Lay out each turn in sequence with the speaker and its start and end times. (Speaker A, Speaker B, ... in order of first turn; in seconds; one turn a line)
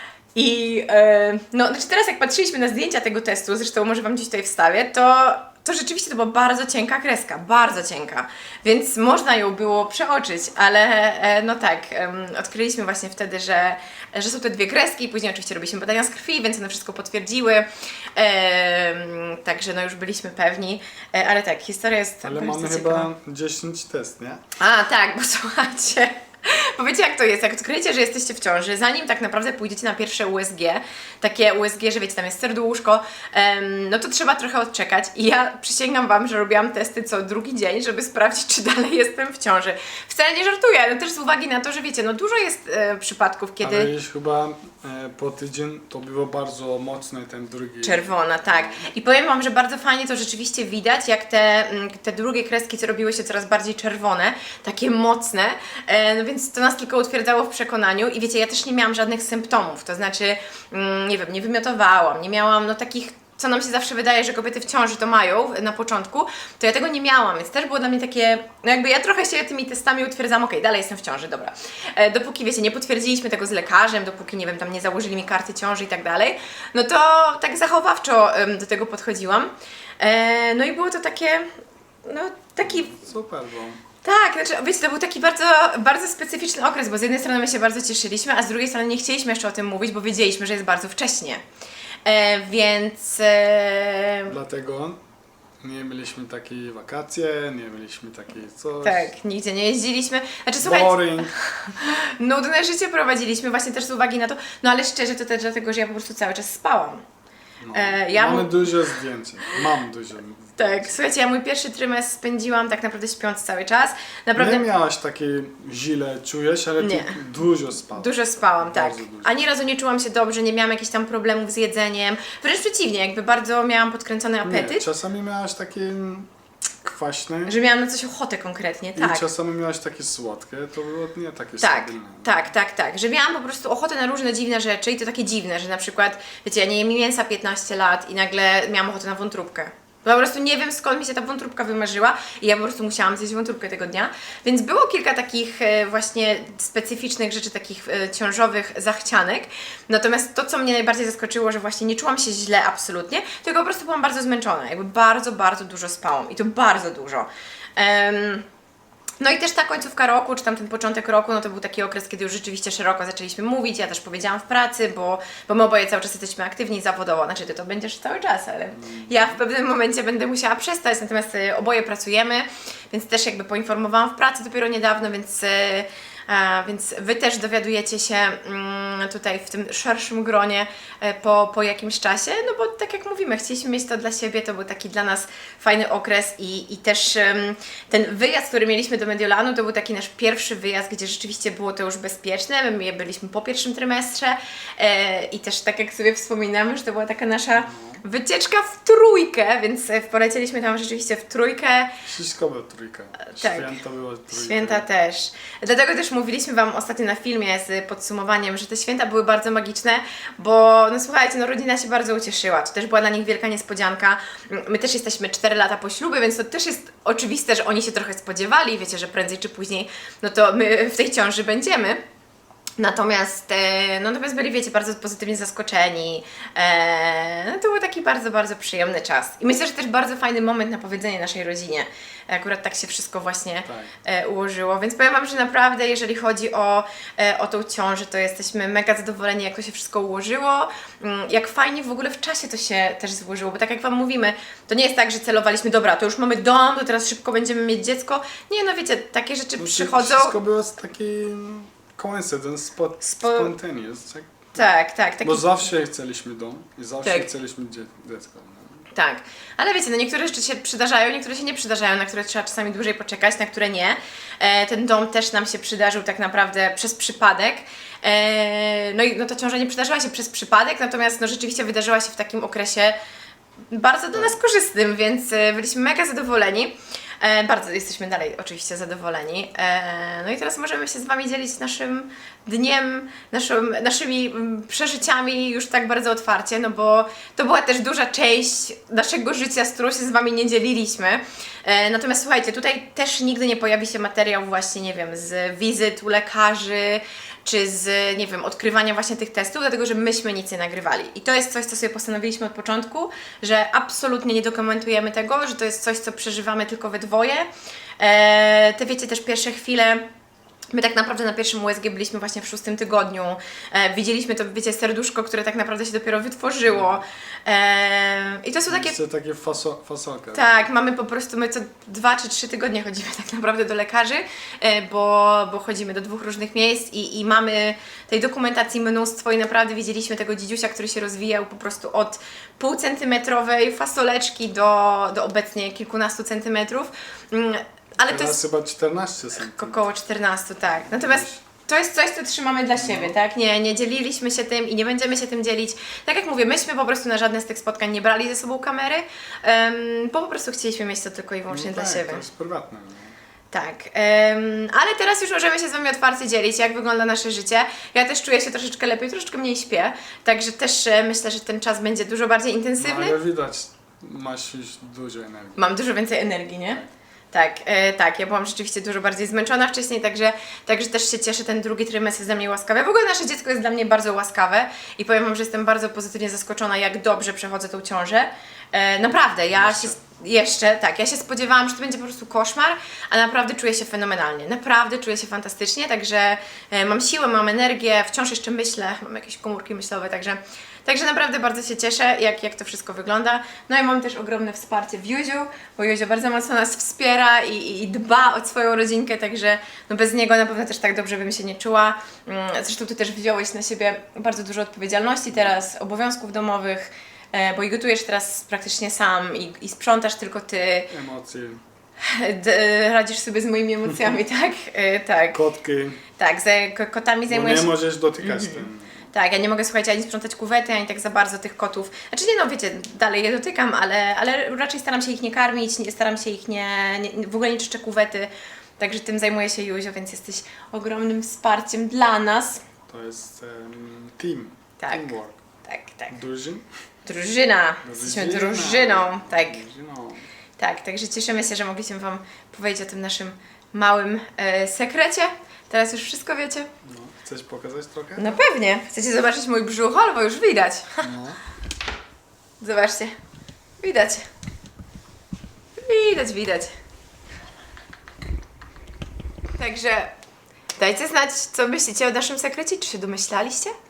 Speaker A: 0.3-23.1
Speaker B: 22.2-24.4
Speaker A: 24.6-43.9
Speaker B: 43.6-48.9
Speaker A: 47.8-81.5
Speaker A: 82.1-83.0
Speaker B: 82.6-83.8
Speaker A: 84.0-91.4
Speaker A: 92.0-94.3
Speaker B: 94.3-95.0
Speaker B: 95.6-99.1
Speaker A: 98.8-107.0
Speaker B: 100.6-101.3
Speaker B: 107.6-110.9
Speaker A: 107.7-108.7
Speaker A: 110.6-114.6
Speaker B: 114.3-119.3
Speaker A: 116.8-117.2
Speaker A: 117.9-124.8
Speaker B: 124.4-126.3
Speaker B: 126.8-127.6
Speaker A: 127.5-129.2
Speaker B: 128.9-132.4
Speaker A: 131.6-158.4
Speaker A: 159.2-201.9
Speaker B: 168.7-169.4
Speaker B: 197.6-198.0
Speaker B: 202.1-204.8
Speaker A: 203.2-203.8
Speaker A: 204.3-222.0
Speaker A: 222.8-250.3
Speaker B: 233.7-233.9
Speaker B: 249.6-254.7
Speaker A: 253.0-253.5
Speaker A: 254.5-255.6
Speaker B: 255.2-258.9
Speaker A: 257.0-257.3
Speaker A: 258.9-272.9
Speaker A: 273.7-307.5
Speaker A: 308.0-310.0
Speaker A: 310.7-318.9
Speaker B: 316.6-316.9
Speaker B: 318.7-320.7
Speaker A: 320.3-338.4
Speaker B: 338.1-339.8
Speaker A: 339.4-352.2
Speaker B: 340.9-341.4
Speaker B: 342.8-343.1
Speaker B: 351.5-353.1
Speaker A: 353.5-363.2
Speaker B: 362.8-365.7
Speaker A: 365.6-410.9
Speaker B: 379.5-379.9
Speaker B: 410.9-411.6
Speaker A: 412.0-415.4
Speaker B: 415.3-416.0
Speaker A: 416.2-432.6
Speaker B: 417.3-418.9
Speaker B: 432.9-435.4
Speaker A: 434.8-435.1
Speaker A: 435.6-436.1
Speaker B: 436.1-436.6
Speaker A: 437.0-439.6
Speaker B: 437.8-440.3
Speaker A: 440.6-446.7
Speaker B: 446.8-448.4
Speaker A: 448.2-451.1
Speaker B: 451.0-451.4
Speaker A: 452.6-453.1
Speaker A: 453.8-454.2
Speaker A: 455.8-456.7
Speaker A: 459.5-460.1
Speaker A: 460.8-463.7